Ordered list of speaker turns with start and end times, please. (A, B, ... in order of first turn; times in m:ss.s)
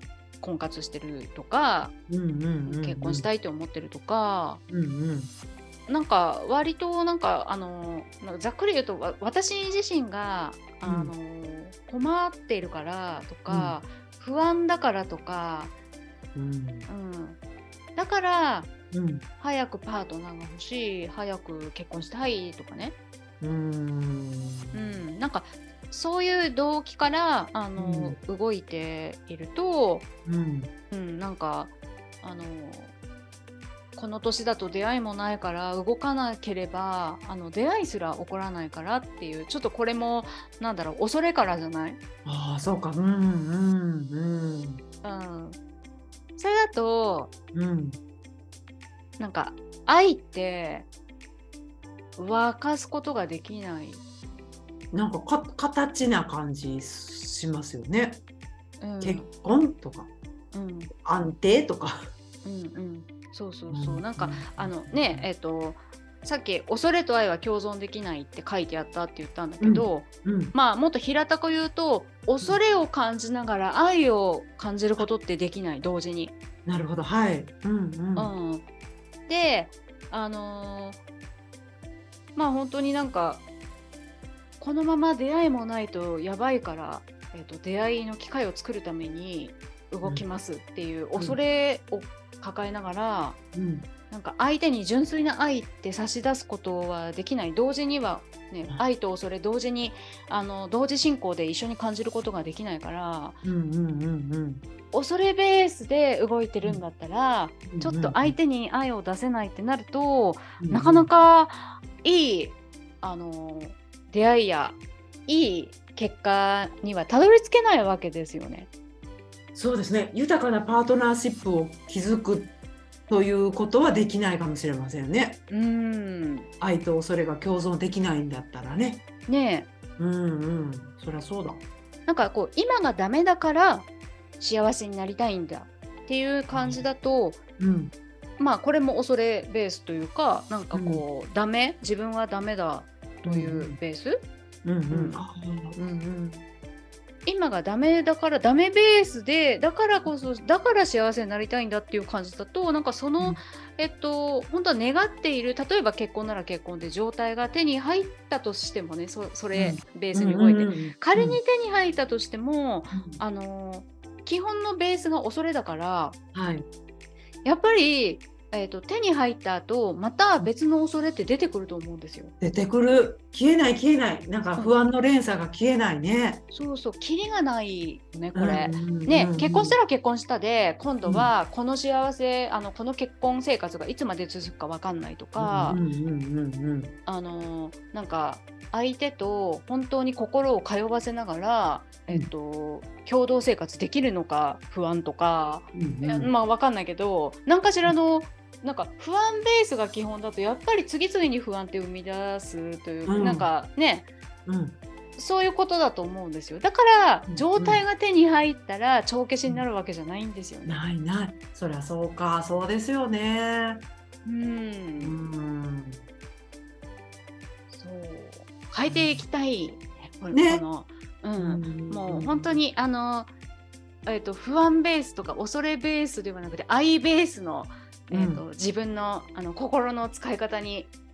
0:00.4-0:01.9 A
0:02.1-0:03.3 B
0:02.6-0:04.6 A
0:04.7-0:05.3 B
0:05.9-0:15.7 A
0:10.8-0:11.1 B
0:13.5-0:13.8 B
0:16.3-0:16.9 B
0:16.9-0:17.4 A
0:18.0-0:18.7 A
0:18.9-0:19.2 B
0:19.4-0:23.0 A
0:23.4-0:25.0 B
0:24.7-0:30.1 A
0:27.8-0:28.2 B
0:30.2-0:30.7 B
0:30.9-0:32.9 A
0:33.9-0:42.0 A
0:42.2-0:44.8 B
0:45.0-0:45.6 A
0:46.4-0:47.3 A
0:47.5-0:48.0 B
0:49.2-0:50.9 A
0:52.2-0:54.0 A
0:54.9-0:58.2 B
0:58.8-0:59.3 A
0:59.0-1:00.1 B
1:00.5-1:00.9 A
1:01.0-1:02.0 B
1:02.4-1:16.4 A
1:03.7-1:05.3 B
1:09.6-1:10.5 B
1:16.6-1:18.3 B
1:18.2-1:18.6 A
1:19.3-1:21.0 A
1:22.3-1:23.4 A
1:24.6-1:33.4 A
1:33.5-1:33.9 B
1:34.1-1:43.4 A
1:43.4-1:44.6 B
1:44.9-1:58.7 A
1:47.7-1:48.4 B
1:50.6-1:51.1 B
1:59.5-2:02.5 B
2:03.1-2:05.4 B
2:05.5-2:06.5 A
2:06.6-2:09.0 B
2:09.3-2:09.7 A
2:10.0-2:11.6 B
2:12.1-2:13.9 A
2:14.4-2:17.4 A
2:16.5-2:16.8 B
2:17.6-2:17.9 B
2:18.4-2:24.2 A
2:20.7-2:21.0 B
2:23.2-2:23.8 B
2:24.6-2:26.4 B
2:24.9-2:25.2 A
2:27.2-2:46.2 A
2:39.5-2:41.4 B
2:42.9-2:43.2 B
2:46.3-2:46.6 B
2:47.4-2:52.3 A
2:52.4-2:56.4 B
2:56.5-3:05.8 A
2:58.3-2:59.8 B
3:01.0-3:01.3 B
3:05.4-3:06.9 B
3:07.0-3:24.1 A
3:15.7-3:16.3 B
3:23.1-3:23.5 B
3:24.4-3:24.8 B
3:25.2-3:30.8 A
3:27.3-3:27.8 B
3:30.7-3:33.8 B
3:34.2-3:35.2 A
3:35.0-3:36.0 B
3:37.7-3:43.3 A
3:38.8-3:39.2 B
3:40.3-3:40.6 B
3:41.4-3:42.6 B
3:44.0-3:50.9 A
3:48.1-3:48.4 B